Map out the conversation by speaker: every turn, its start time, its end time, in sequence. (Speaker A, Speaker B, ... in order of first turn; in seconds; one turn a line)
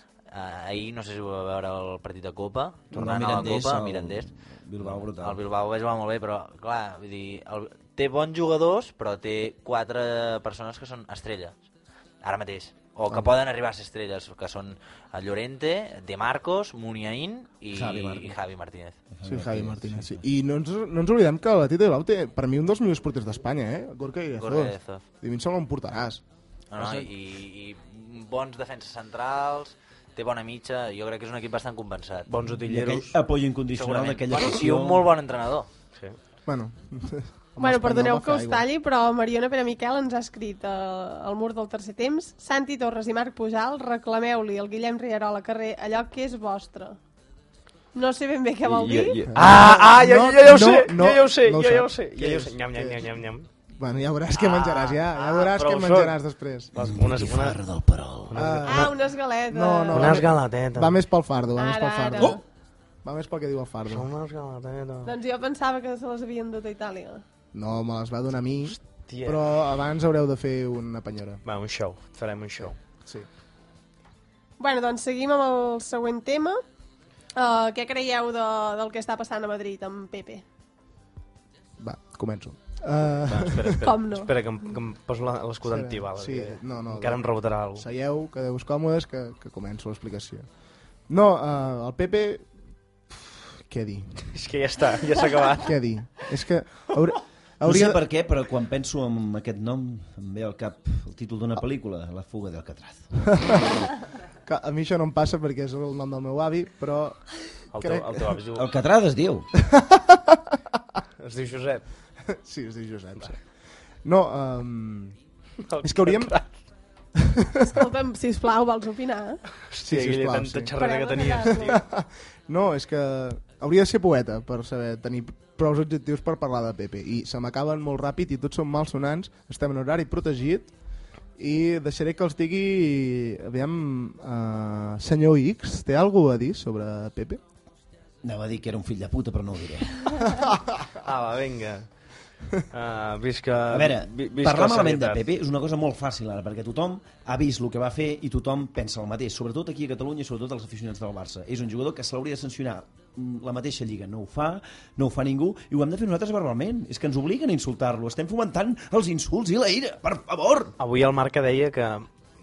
Speaker A: 0.3-4.3
Speaker B: 2.9-5.4
Speaker A: 4.8-11.6
Speaker A: 12.2-19.0
Speaker B: 17.7-18.4
Speaker B: 19.1-20.2
Speaker C: 19.2-26.2
Speaker A: 24.4-25.0
Speaker A: 26.7-32.3
Speaker D: 32.3-33.1
Speaker B: 32.6-35.1
Speaker A: 33.7-35.7
Speaker C: 36.5-38.7
Speaker E: 37.6-47.0
Speaker E: 47.9-49.2
Speaker D: 48.6-53.5
Speaker C: 49.3-53.2
Speaker C: 53.7-56.7
Speaker D: 54.4-56.2
Speaker D: 56.7-57.6
Speaker B: 56.8-58.4
Speaker D: 58.3-58.8
Speaker C: 58.3-62.4
Speaker E: 58.6-60.2
Speaker D: 59.9-61.0
Speaker E: 61.6-62.4
Speaker C: 63.0-64.0
Speaker D: 63.9-65.1
Speaker E: 65.0-67.2
Speaker C: 67.5-71.4
Speaker D: 68.6-69.4
Speaker D: 71.4-72.8
Speaker C: 72.6-73.3
Speaker E: 74.6-76.6
Speaker E: 77.3-80.4
Speaker C: 81.8-83.8
Speaker D: 83.3-87.8
Speaker E: 83.8-84.3
Speaker C: 85.6-87.2
Speaker C: 87.7-90.5
Speaker C: 91.1-92.5
Speaker C: 93.1-94.2
Speaker D: 94.3-95.8
Speaker C: 95.6-98.0
Speaker B: 97.6-103.1
Speaker C: 103.3-103.7
Speaker C: 104.5-107.2
Speaker D: 107.7-108.7
Speaker C: 107.8-108.3
Speaker B: 108.5-109.5
Speaker C: 109.6-110.4
Speaker D: 111.2-111.8
Speaker C: 112.3-113.4
Speaker C: 114.0-115.2
Speaker D: 115.7-116.5
Speaker C: 115.8-116.4
Speaker C: 117.2-117.8
Speaker E: 117.7-119.4
Speaker D: 119.7-121.8
Speaker C: 119.8-120.7
Speaker E: 120.8-121.8
Speaker C: 121.5-130.7
Speaker C: 131.4-137.4
Speaker B: 138.2-140.3
Speaker C: 140.3-140.6
Speaker D: 141.0-141.9
Speaker D: 142.7-145.2
Speaker B: 143.7-160.7
Speaker D: 160.8-162.1